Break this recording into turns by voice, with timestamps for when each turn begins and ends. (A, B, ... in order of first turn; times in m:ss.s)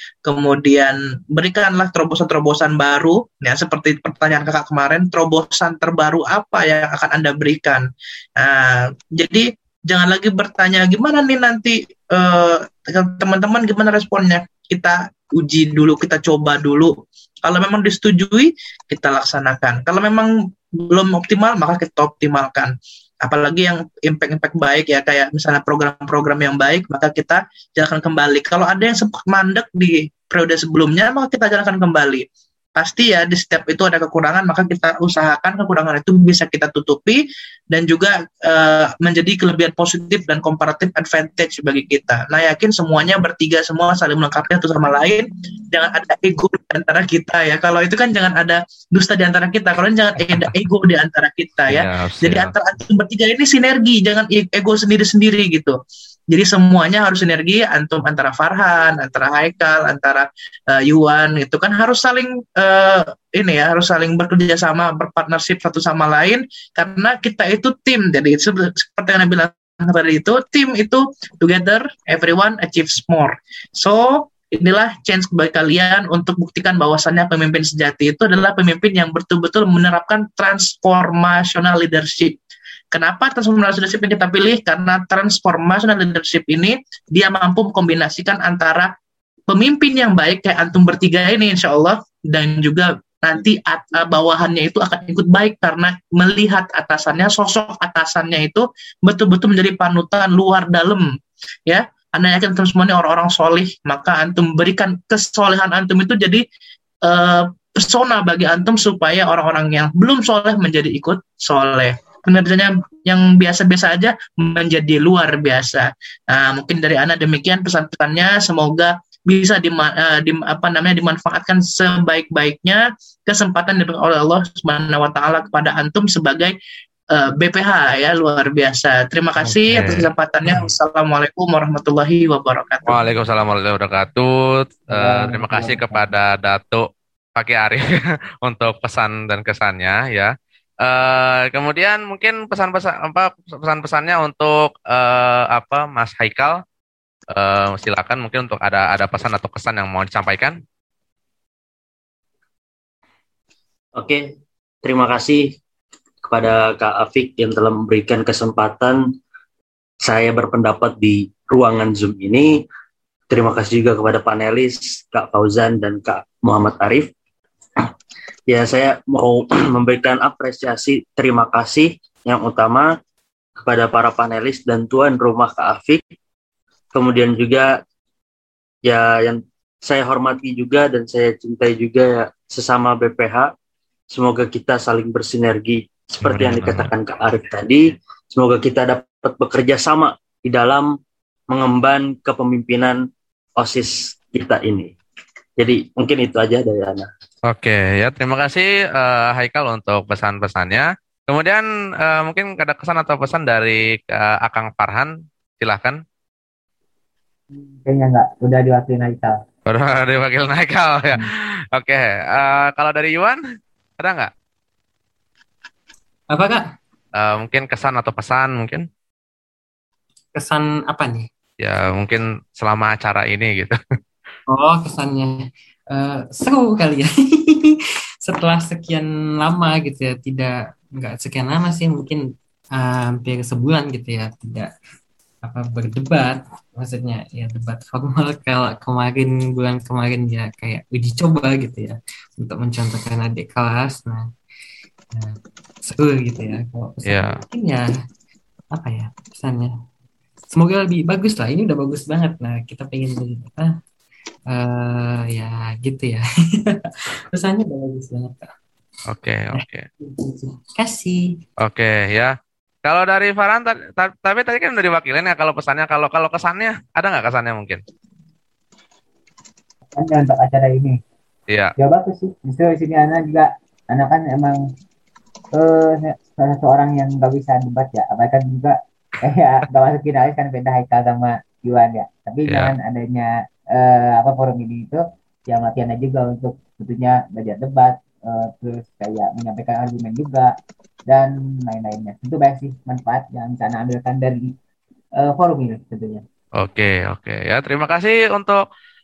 0:00.2-0:55.8 A
0:51.7-0:52.5 B
0:56.3-1:22.4 A
1:22.9-1:28.9 A
1:29.5-1:41.1 A
1:41.7-1:46.4 A
1:47.0-2:06.6 A
2:07.1-2:13.0 A
2:09.4-2:10.7 B
2:12.8-2:17.9 B
2:14.9-2:16.1 C
2:18.4-2:20.3 B
2:20.8-2:26.6 B
2:27.3-2:30.6 B
2:34.0-2:34.2 D
2:34.8-2:35.6 D
2:36.2-2:39.0 D
2:40.0-2:42.6 D
2:43.3-2:47.1 D
2:48.5-2:52.9 D
2:53.6-2:56.0 D
2:56.9-2:57.8 D
2:58.8-3:03.5 D
3:04.1-3:10.9 D
3:06.2-3:06.9 B
3:11.5-3:13.0 D
3:13.6-3:14.9 D
3:15.6-3:17.1 D
3:17.5-3:26.0 B
3:27.5-3:29.4 C
3:29.7-3:33.4 B
3:34.0-3:34.3 B
3:36.3-3:36.7 E
3:37.2-3:38.8 B
3:40.3-3:41.3 E
3:41.6-3:43.8 B
3:44.5-3:52.2 E
3:52.8-3:54.7 E
3:55.4-4:04.3 E
4:05.1-4:07.9 E
4:07.0-4:07.4 B
4:08.7-4:09.7 E
4:10.5-4:13.7 E
4:14.5-4:18.5 E
4:19.1-4:19.9 B
4:19.5-4:21.4 E
4:21.6-4:22.3 B
4:22.8-4:27.8 B
4:29.9-4:31.0 C
4:31.5-4:31.7 B
4:31.8-4:34.6 C
4:35.5-4:50.5 C
4:42.5-4:42.7 B
4:51.1-4:54.5 C
4:55.2-4:56.2 C
4:56.6-4:58.6 B